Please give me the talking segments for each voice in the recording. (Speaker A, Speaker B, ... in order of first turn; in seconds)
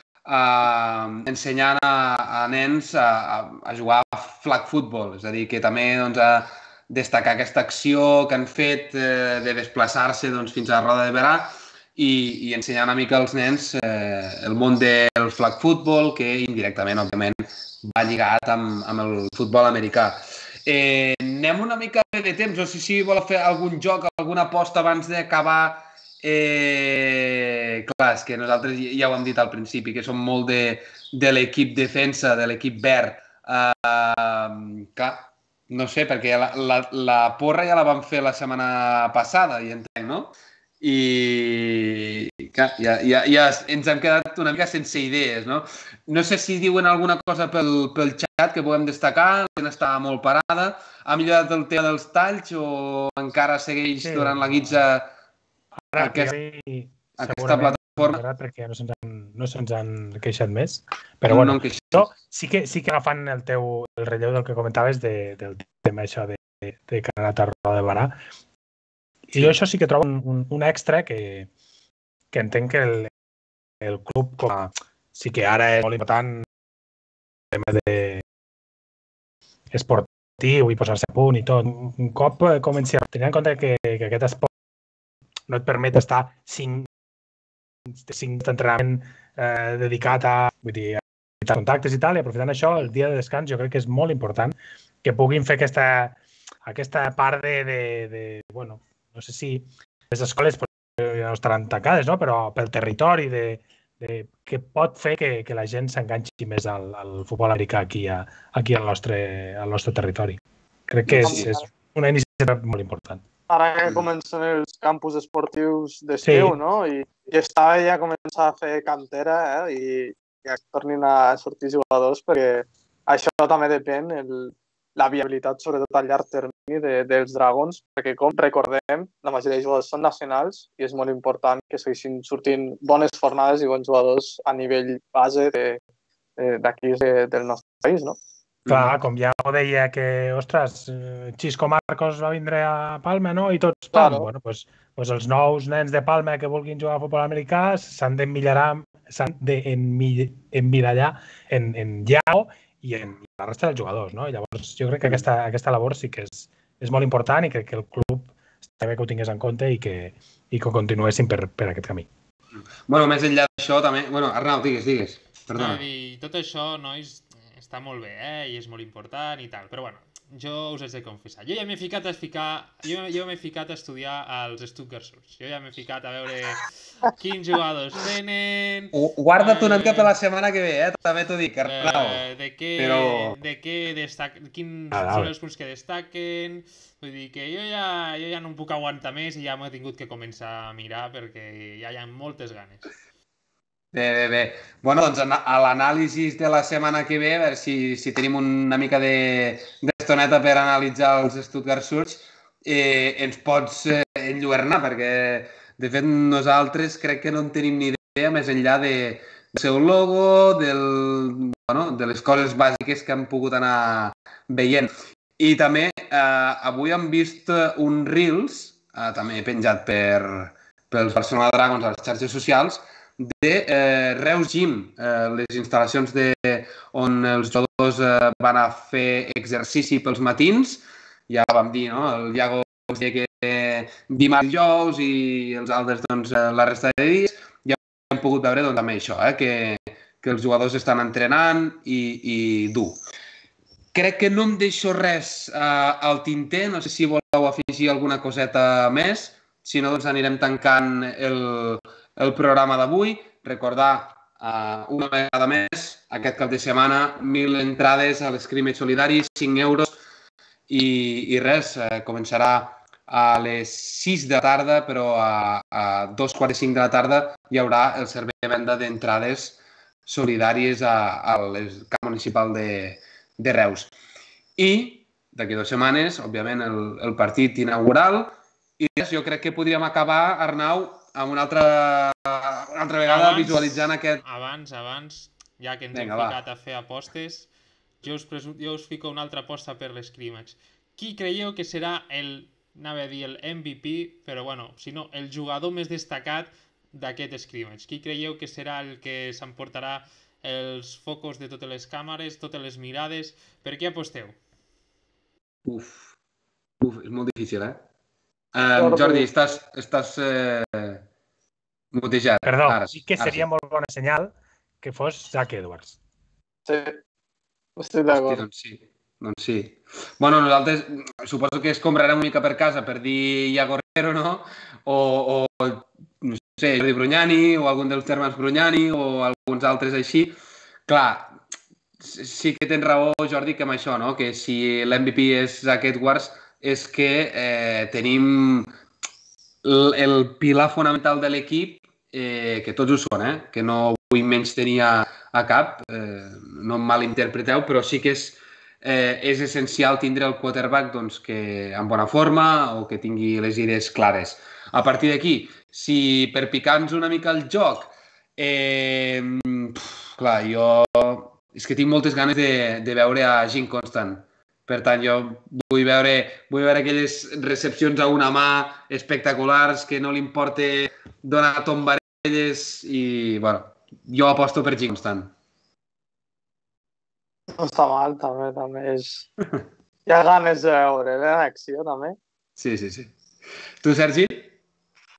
Speaker A: 0.2-55.1, 56.0-56.3, 57.2-58.2, 61.3-62.1, 111.1-111.5, 138.7-138.9, 162.6-165.8, 178.9-182.2, 182.8-183.4, 193.9-243.0, 243.9-260.0, 260.7-273.9, 274.6-284.2, 285.9-286.4, 305.6-306.1, 306.8-307.8, 308.5-311.0, 311.9-313.4, 318.1-330.3, 330.9-331.4, 332.0-338.7, 339.6-375.3, 382.6-383.1, 383.8-384.5
Speaker B: 54.0-54.8, 55.9-68.2, 69.3-71.5, 72.3-73.1, 73.8-76.5, 77.5-78.2, 79.7-84.5, 85.5-86.9, 88.0-113.2, 116.2-116.6, 138.7-162.1, 184.9-185.3, 312.4-316.0
Speaker C: 111.2-111.6, 113.5-135.8, 136.4-138.2, 143.9-144.3, 308.8-309.3, 316.6-317.0, 317.8-318.4, 377.6-379.3, 380.1-382.2
Speaker D: 165.5-180.2, 181.7-192.9, 283.1-287.5, 288.0-304.4